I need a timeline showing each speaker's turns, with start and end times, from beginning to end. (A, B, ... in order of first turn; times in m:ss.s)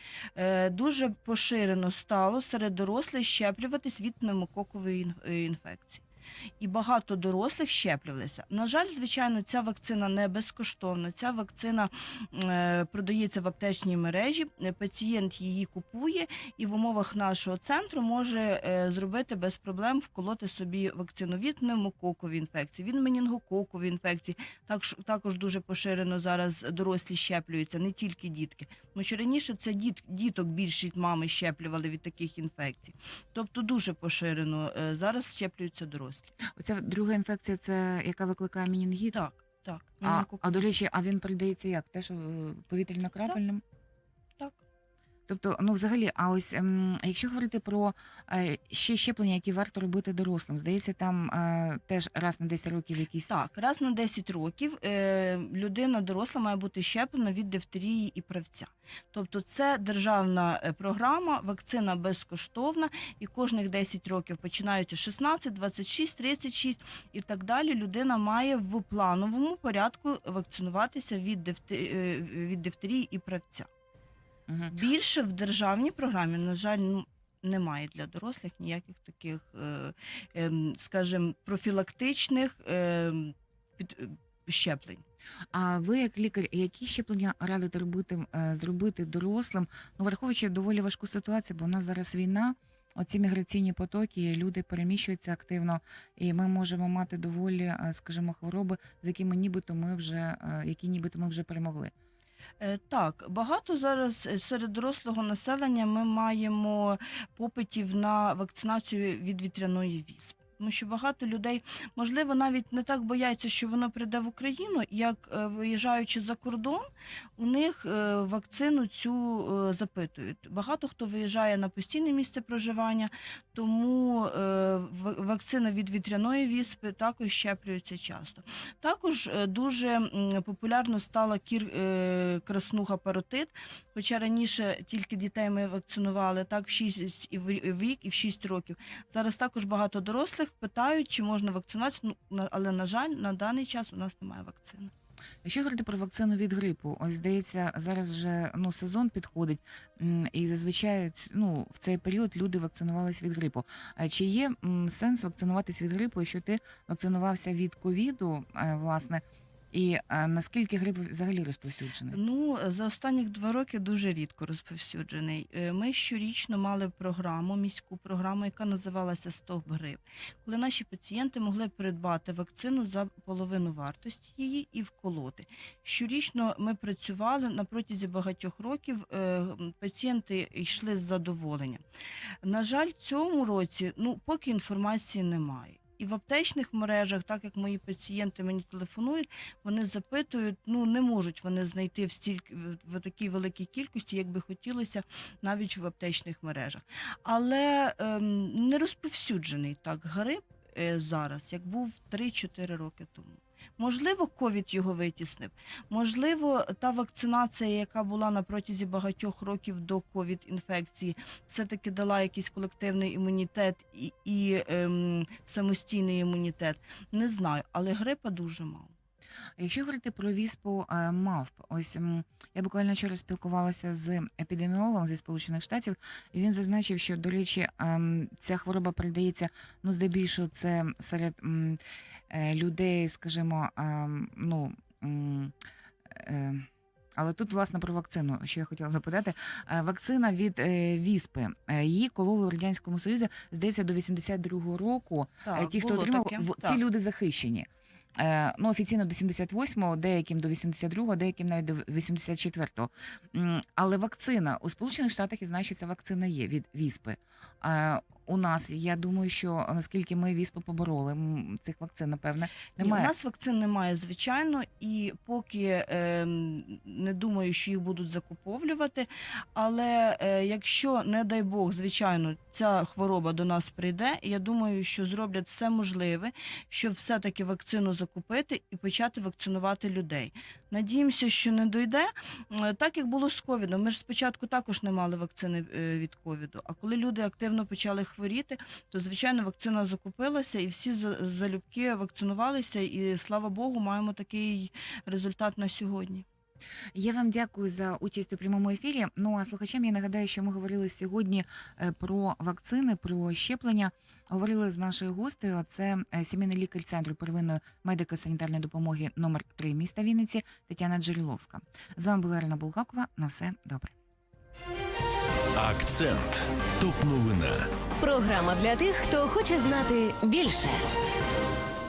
0:00.4-0:06.0 A
0:06.6-0:36.3 A
0:36.5-0:39.2 B
0:39.1-0:40.7 A
0:40.0-0:43.6 B
0:45.3-0:53.3 B
0:53.3-1:13.7 A
1:14.5-1:14.8 B
1:14.7-1:25.0 A
1:25.5-1:41.9 B
1:42.6-1:56.8 A
1:57.4-2:24.9 A
2:25.4-2:42.2 B
2:42.1-3:01.8 A
3:02.4-3:38.9 A
3:39.6-3:55.5 B
3:56.1-4:23.1 B
4:05.4-4:06.8 A
4:22.8-4:56.2 A
4:56.9-5:13.9 B
5:15.6-5:17.6 C
5:18.0-5:20.8 D